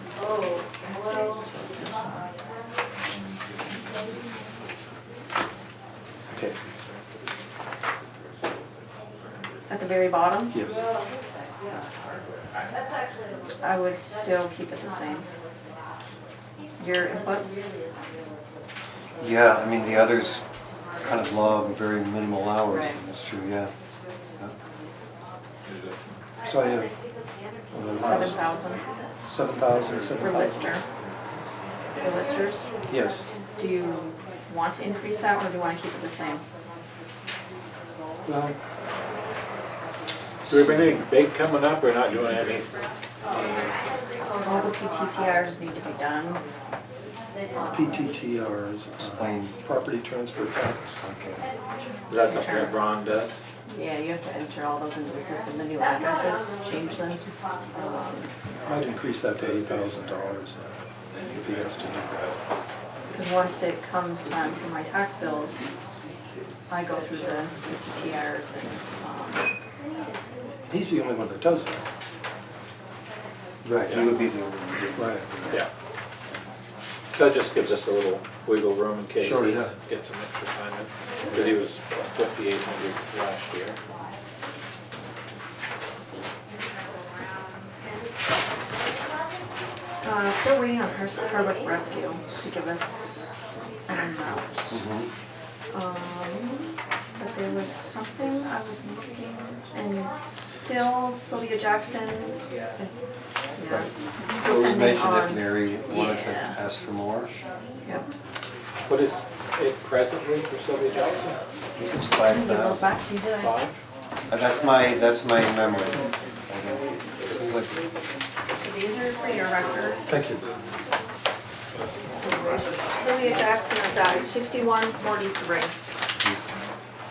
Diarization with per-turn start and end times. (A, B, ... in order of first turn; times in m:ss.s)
0:00.8-0:02.2 A
0:06.3-0:06.6 B
0:09.7-0:10.6 A
0:10.5-0:10.8 B
0:13.6-0:15.3 A
0:16.8-0:17.6 A
0:19.2-0:20.4 C
0:21.0-0:23.7 C
0:22.7-0:23.0 A
0:26.4-0:27.0 B
0:27.7-0:28.4 B
0:28.0-0:28.8 A
0:29.3-0:30.7 B
0:30.2-0:30.8 A
0:32.0-0:32.7 A
0:32.9-0:33.3 B
0:33.6-0:36.4 A
0:38.3-0:38.6 B
0:40.5-0:42.7 D
0:43.3-0:43.8 D
0:44.2-0:46.4 A
0:47.6-0:51.0 B
0:49.0-0:49.5 C
0:51.0-0:51.4 C
0:52.1-0:53.4 D
0:52.2-0:52.8 A
0:53.7-0:58.3 A
0:58.6-1:00.7 B
1:01.3-1:02.3 B
1:03.1-1:05.7 A
1:06.7-1:09.5 A
1:10.7-1:11.9 B
1:13.6-1:15.6 C
1:13.9-1:14.2 D
1:15.0-1:15.2 B
1:17.2-1:23.8 D
1:19.2-1:19.7 B
1:30.0-1:34.8 A
1:34.7-1:35.1 C
1:35.7-1:42.9 A
1:43.6-1:46.6 A
1:44.4-1:47.4 C
1:48.9-1:51.4 D
1:51.8-1:52.9 C
1:52.3-1:53.6 A
1:53.4-1:53.7 D
1:54.3-1:57.8 C
1:58.6-2:00.1 A
2:00.1-2:00.4 B
2:02.1-2:05.8 A